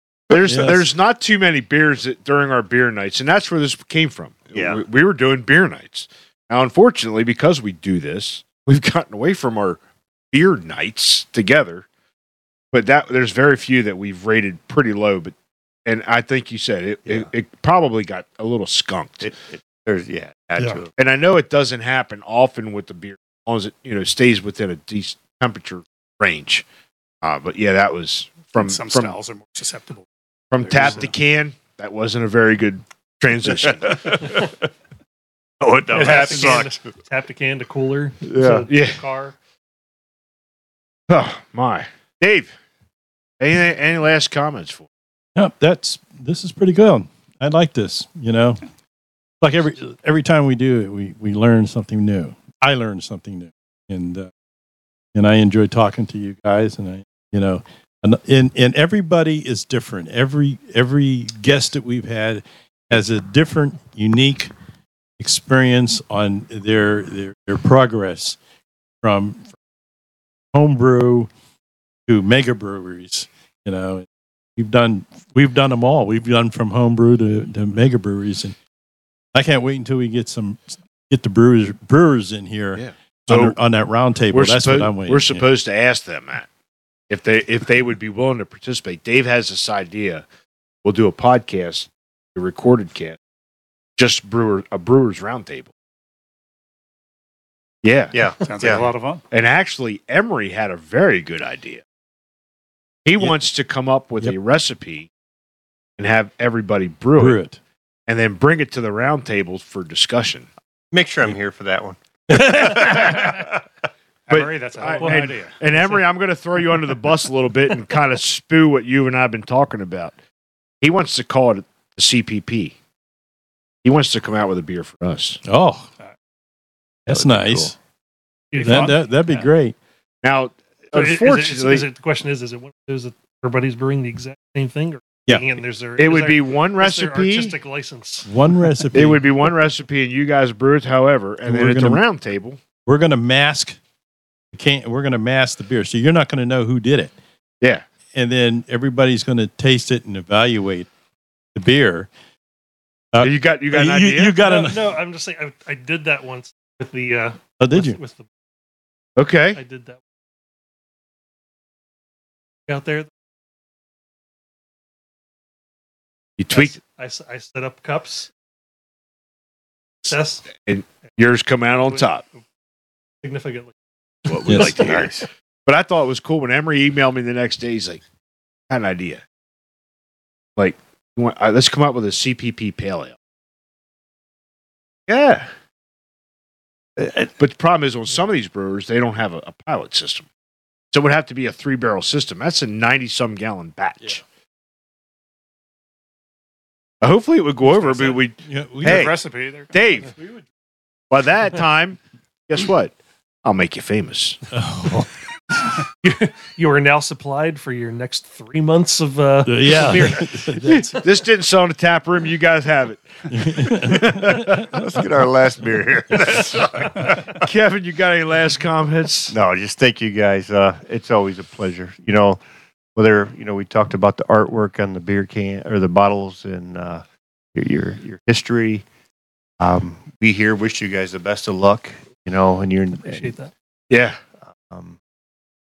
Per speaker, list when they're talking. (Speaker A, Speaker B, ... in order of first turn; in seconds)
Speaker A: 0.3-9.8, 10.3-11.8, 12.7-15.3, 15.8-19.3, 20.9-26.6, 27.2-29.2, 30.5-34.4, 35.9-36.7, 38.3-39.0, 41.1-42.5, 43.4-44.9, 82.7-83.6, 84.3-86.5, 87.1-90.2, 90.8-93.2, 94.0-95.7, 97.8-101.8, 103.0-105.1, 106.0-107.4, 108.1-110.5, 114.3-120.1, 120.8-122.7, 123.8-125.4, 127.1-127.7, 130.2-131.8, 136.0-137.5, 138.9-142.6, 153.2-154.4, 159.2-159.6, 166.4-166.8, 170.6-172.2, 174.2-178.0, 178.7-179.2, 180.6-183.2, 185.1-185.5, 187.2-190.3, 190.9-194.2, 197.0-199.1, 199.7-200.1, 201.1-202.9, 203.4-204.4, 210.6-214.7, 217.4-219.3, 233.9-234.2
Speaker B: 0.4-0.8, 45.4-48.6, 49.4-54.3, 55.1-64.5, 65.2-68.4, 69.0-69.5, 70.5-71.3, 72.1-78.5, 79.3-85.4, 107.2-107.6, 112.3-113.3, 125.4-125.9, 127.0-127.7, 128.6-129.7, 138.3-139.3, 141.4-142.0, 142.8-143.8, 144.5-147.1, 148.1-150.9, 151.5-152.1, 153.1-155.0, 157.6-158.0, 174.4-174.8, 198.4-199.1, 204.5-205.1, 209.4-211.0, 213.3-214.7
Speaker C: 4.5-4.8, 19.2-20.9, 34.0-34.4, 35.6-36.7, 98.1-98.9, 110.9-113.6, 174.7-175.2, 214.6-217.4, 219.3-222.4, 222.9-228.8, 229.6-233.3, 234.6-235.0
Speaker D: 28.5-30.1, 35.9-36.7, 98.4-99.2, 114.3-116.0, 128.5-129.4, 198.8-199.7
Speaker E: 35.9-39.3, 115.0-115.3, 128.5-129.0, 130.9-138.3, 154.4-158.2, 159.6-160.0, 162.7-163.1, 166.5-168.3, 170.0-170.4, 173.2-175.0, 206.0-210.6, 233.0-233.5